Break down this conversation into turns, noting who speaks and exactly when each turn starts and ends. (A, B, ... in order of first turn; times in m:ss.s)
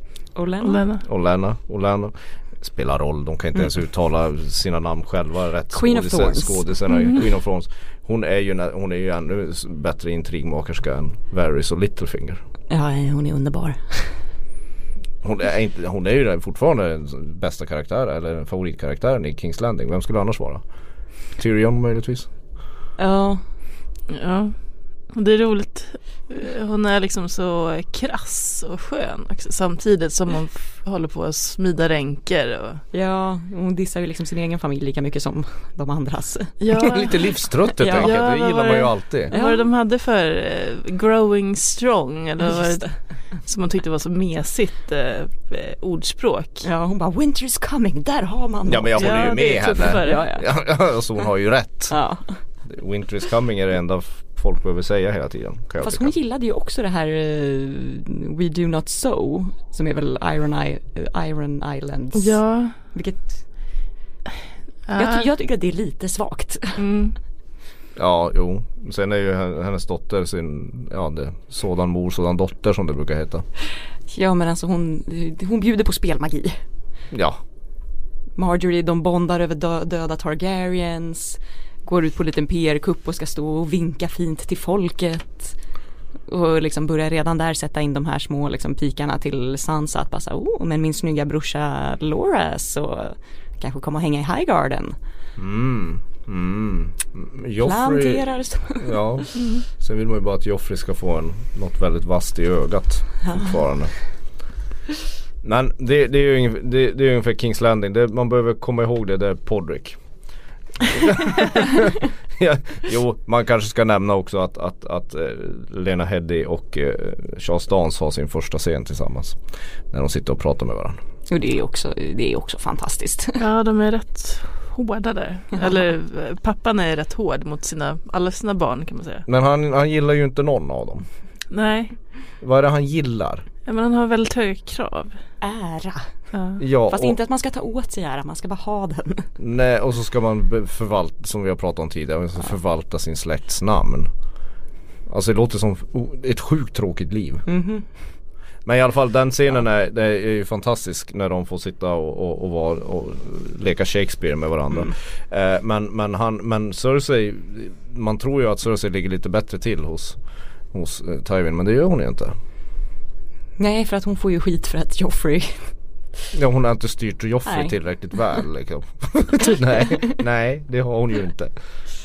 0:00.4-0:00.8 A
0:00.6-0:01.0 B
0:01.0-0:12.4 C
0:05.7-0:07.1 A
0:12.7-0:14.1 A
0:15.2-0:20.6 C
0:21.4-0:22.3 C
0:23.0-0:23.4 A
0:24.1-0:24.5 B
0:25.1-0:32.8 B
0:32.9-0:36.5 A
0:36.6-0:37.3 B
0:36.7-0:39.3 C
0:37.8-0:38.2 A
0:38.0-0:46.7 B
0:39.3-0:39.7 A
0:46.6-0:50.4 A
0:48.7-0:52.0 C
0:49.0-0:50.3 B
0:51.9-0:52.4 A
0:52.7-0:56.1 C
0:55.8-1:02.4 A
1:02.2-1:02.8 B
1:02.9-1:03.4 A
1:04.9-1:05.3 B
1:05.0-1:06.8 A
1:06.8-1:07.2 B
1:08.0-1:13.4 C
1:14.1-1:16.6 A
1:17.1-1:17.4 C
1:18.4-1:25.6 A
1:26.3-1:35.0 A
1:35.4-1:38.3 C
1:37.6-1:39.3 A
1:38.8-1:43.9 C
1:45.4-1:50.0 C
1:50.8-1:59.4 C
1:59.9-2:01.0 C
2:01.3-2:03.4 A
2:03.4-2:09.2 B
2:09.3-2:11.1 C
2:11.5-2:12.0 B
2:12.4-2:13.5 C
2:13.6-2:15.2 B
2:15.4-2:16.1 A
2:16.3-2:16.6 B
2:16.6-2:17.2 C
2:16.9-2:19.3 A
2:19.4-2:24.1 C
2:25.1-2:27.4 C
2:27.5-2:27.8 A
2:28.6-2:40.2 C
2:40.7-2:42.4 C
2:43.6-2:45.7 A
2:46.3-2:51.5 C
2:47.5-2:47.7 A